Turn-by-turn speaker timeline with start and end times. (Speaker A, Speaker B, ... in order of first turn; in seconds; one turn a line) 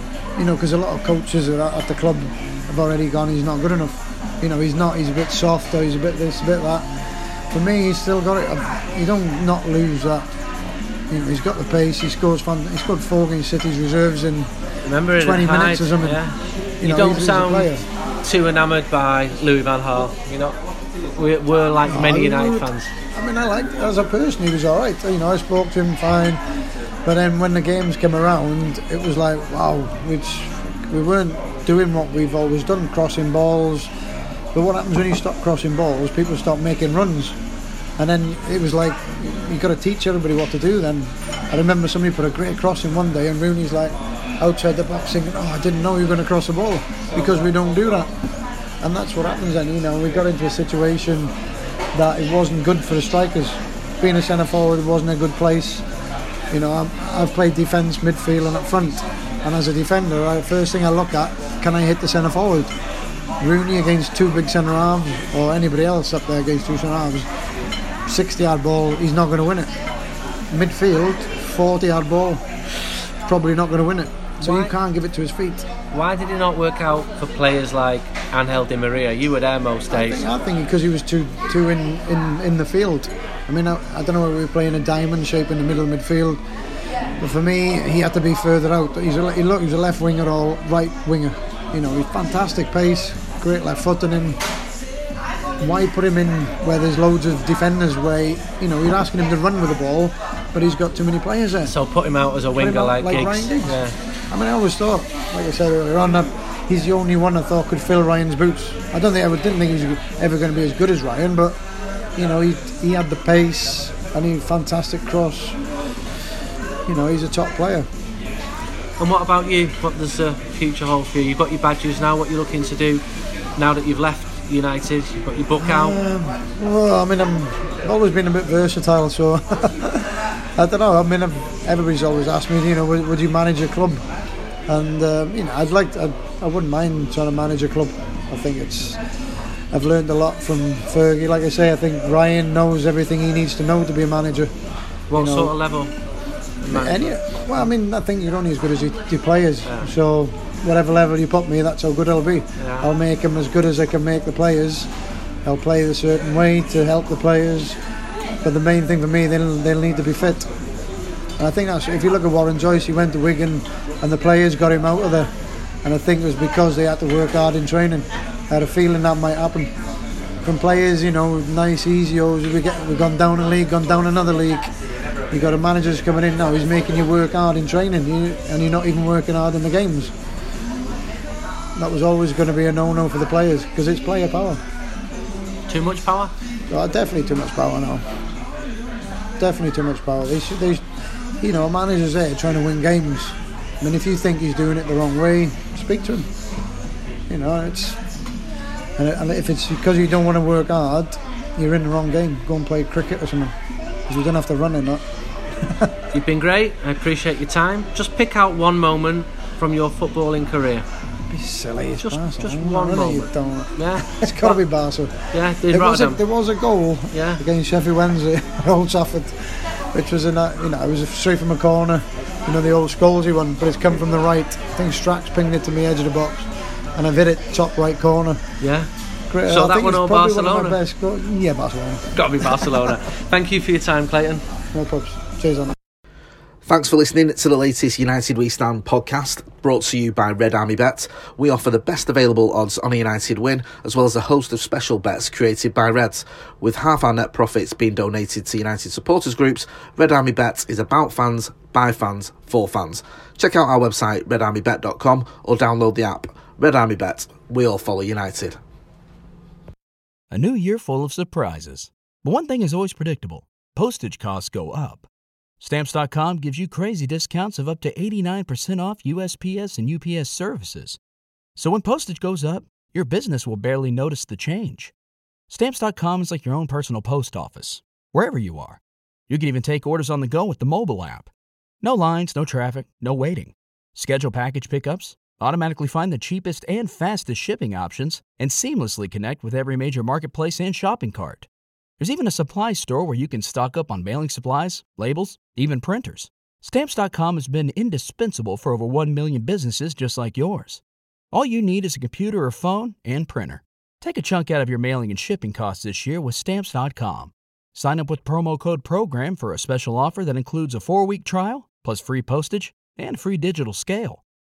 Speaker A: 0.4-6.9
Speaker A: 7.5-10.3
Speaker A: 11.1-14.5
Speaker B: 14.8-20.5
Speaker A: 15.2-16.2
Speaker A: 16.8-17.8
Speaker B: 21.1-22.9
Speaker A: 21.8-26.4
Speaker A: 27.0-33.9
Speaker A: 34.5-37.4
Speaker A: 38.0-48.1
Speaker A: 48.8-51.3
Speaker A: 51.9-55.9
Speaker A: 56.5-62.7
Speaker A: 63.4-67.3
Speaker A: 68.0-69.7
Speaker A: 70.5-72.4
Speaker A: 73.2-75.7
Speaker B: 74.4-74.7
Speaker B: 75.9-80.2
Speaker A: 79.9-86.4
Speaker A: 87.2-94.4
Speaker A: 95.6-101.7
Speaker B: 101.7-104.0
Speaker A: 102.5-111.6
Speaker A: 112.1-115.6
Speaker A: 116.8-117.9
Speaker B: 119.0-123.0
Speaker B: 123.6-126.0
Speaker A: 125.6-134.0
Speaker A: 134.7-139.0
Speaker A: 139.7-144.5
Speaker B: 145.1-145.9
Speaker A: 145.1-145.5
Speaker B: 146.6-147.7
Speaker A: 146.7-154.9
Speaker B: 152.6-152.9
Speaker A: 155.4-157.8
Speaker A: 158.4-160.5
Speaker A: 161.4-165.3
Speaker A: 165.8-169.7
Speaker A: 170.4-174.7
Speaker A: 175.3-180.1
Speaker A: 181.8-184.6
Speaker B: 185.7-186.3
Speaker A: 186.7-188.0
Speaker A: 189.4-190.8
Speaker A: 191.4-196.3
Speaker A: 197.3-198.0
Speaker A: 199.0-203.5
Speaker A: 204.1-205.0
Speaker A: 205.6-206.0
Speaker B: 206.1-210.8
Speaker A: 211.3-215.2
Speaker B: 212.0-214.6
Speaker B: 215.3-216.2
Speaker A: 215.7-226.4
Speaker B: 217.1-217.4
Speaker A: 226.9-228.4
Speaker B: 228.6-228.9
Speaker A: 229.3-232.9
Speaker B: 229.4-230.8
Speaker B: 232.1-234.4
Speaker A: 234.7-235.8
Speaker C: 236.6-258.6
Speaker D: 260.3-265.1
Speaker D: 265.6-271.0
Speaker D: 271.6-274.9
Speaker D: 275.5-281.3
Speaker D: 281.8-291.5
Speaker D: 292.0-300.8
Speaker D: 301.3-314.2